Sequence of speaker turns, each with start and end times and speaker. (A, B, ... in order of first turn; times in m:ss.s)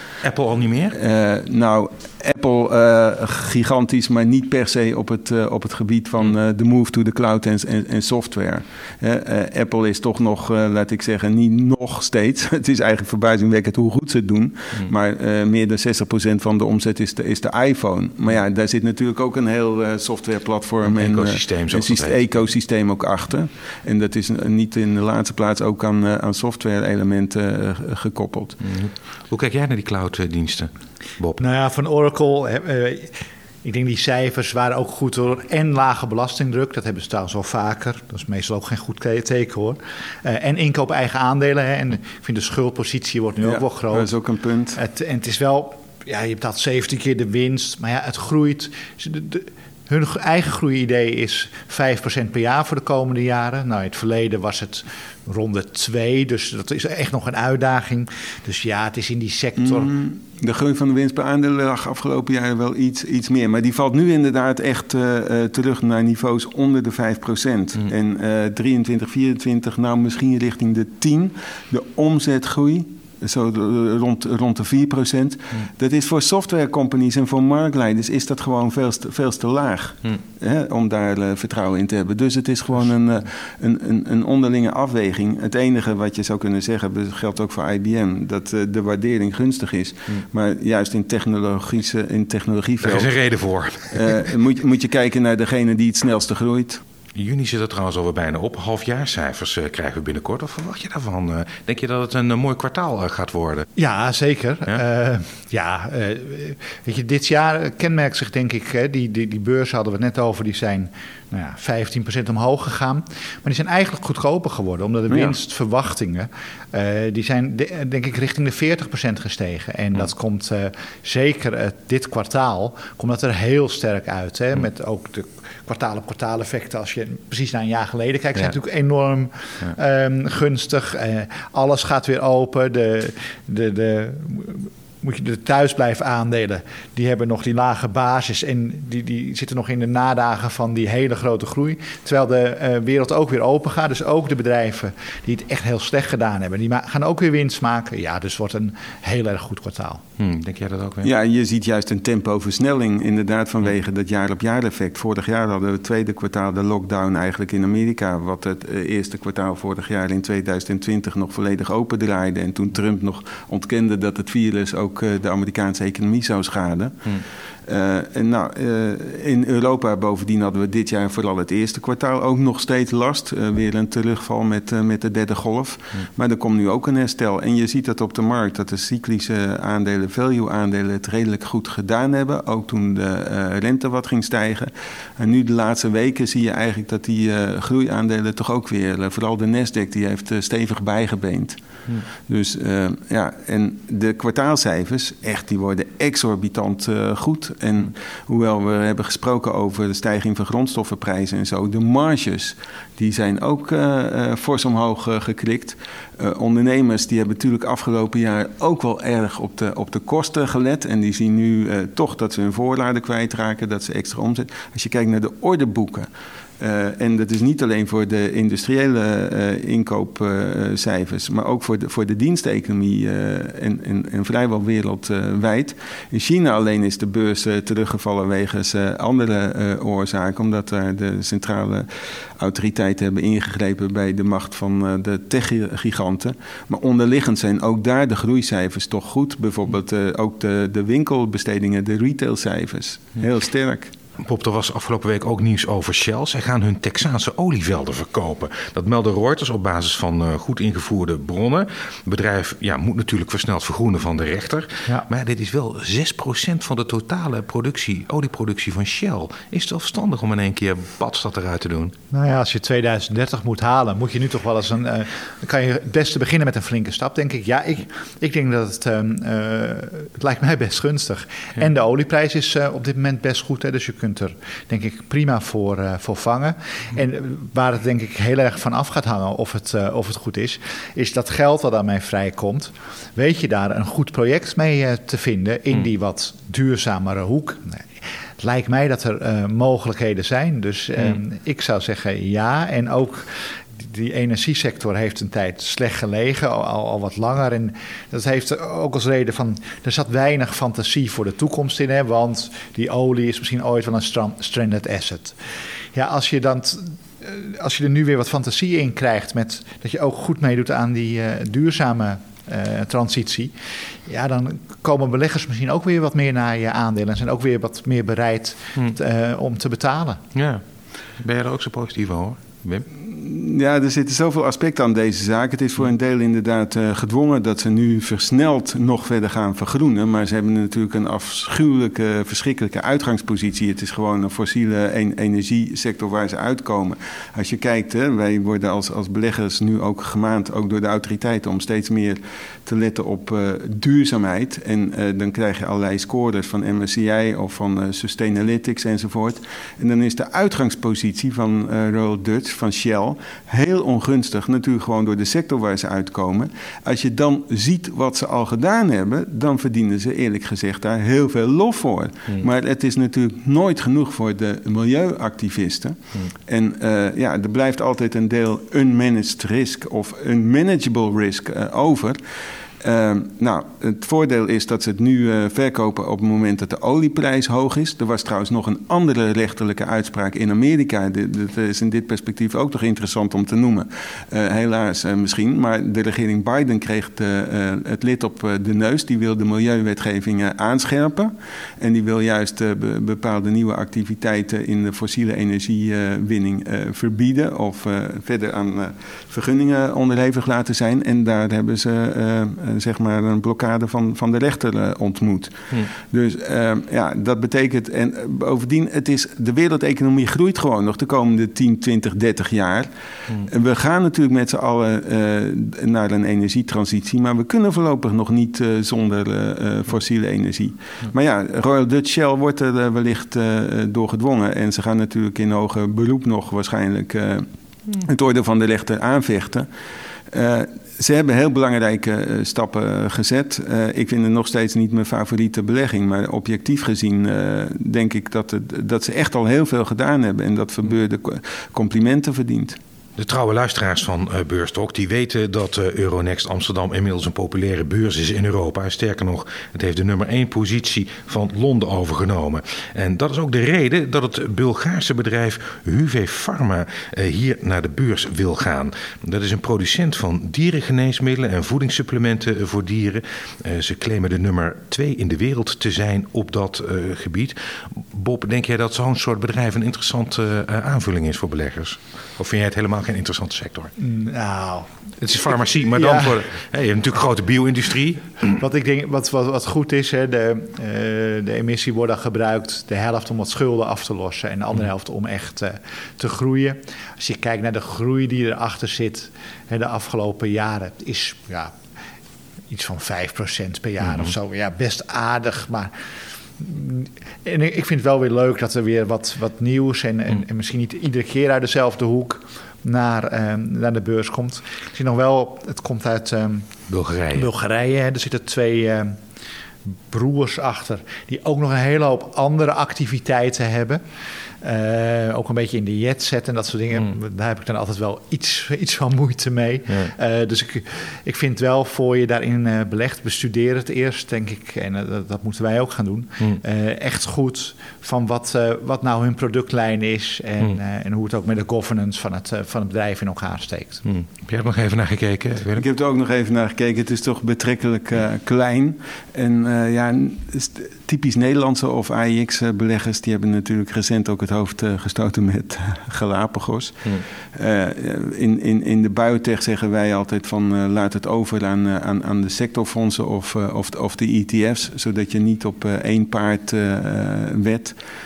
0:00.2-0:01.0 A
0:00.9-0:28.6 B
0:20.8-0:22.2 A
0:28.6-0:31.4 A
0:31.4-0:44.1 C
0:43.4-0:44.8 B
0:44.8-0:59.9 C
0:59.6-1:33.1 B
1:32.8-1:34.1 A
1:33.9-1:36.8 B
1:37.2-1:43.7 A
1:43.8-2:30.0 C
2:30.2-2:31.1 A
2:31.0-3:11.6 B
3:12.2-3:51.9 B
3:52.4-4:03.9 B
4:04.2-4:21.9 A
4:22.1-4:47.9 C
4:48.4-5:05.4 C
5:06.0-5:13.5 C
5:14.1-5:20.2 C
5:20.4-5:20.6 A
5:21.2-5:22.9 A
5:22.9-6:12.2 B
6:12.8-7:09.7 B
7:10.3-7:22.8 B
7:23.2-7:53.9 A
7:54.0-7:54.9 C
7:55.2-7:58.5 A
7:55.9-7:56.4 C
7:58.5-8:11.8 C
8:12.7-8:15.9 C
8:16.6-8:26.7 C
8:26.9-8:27.5 A
8:27.3-8:29.2 C
8:30.1-8:34.0 C
8:34.6-8:54.0 C
8:54.1-8:55.8 A
8:55.8-9:18.0 B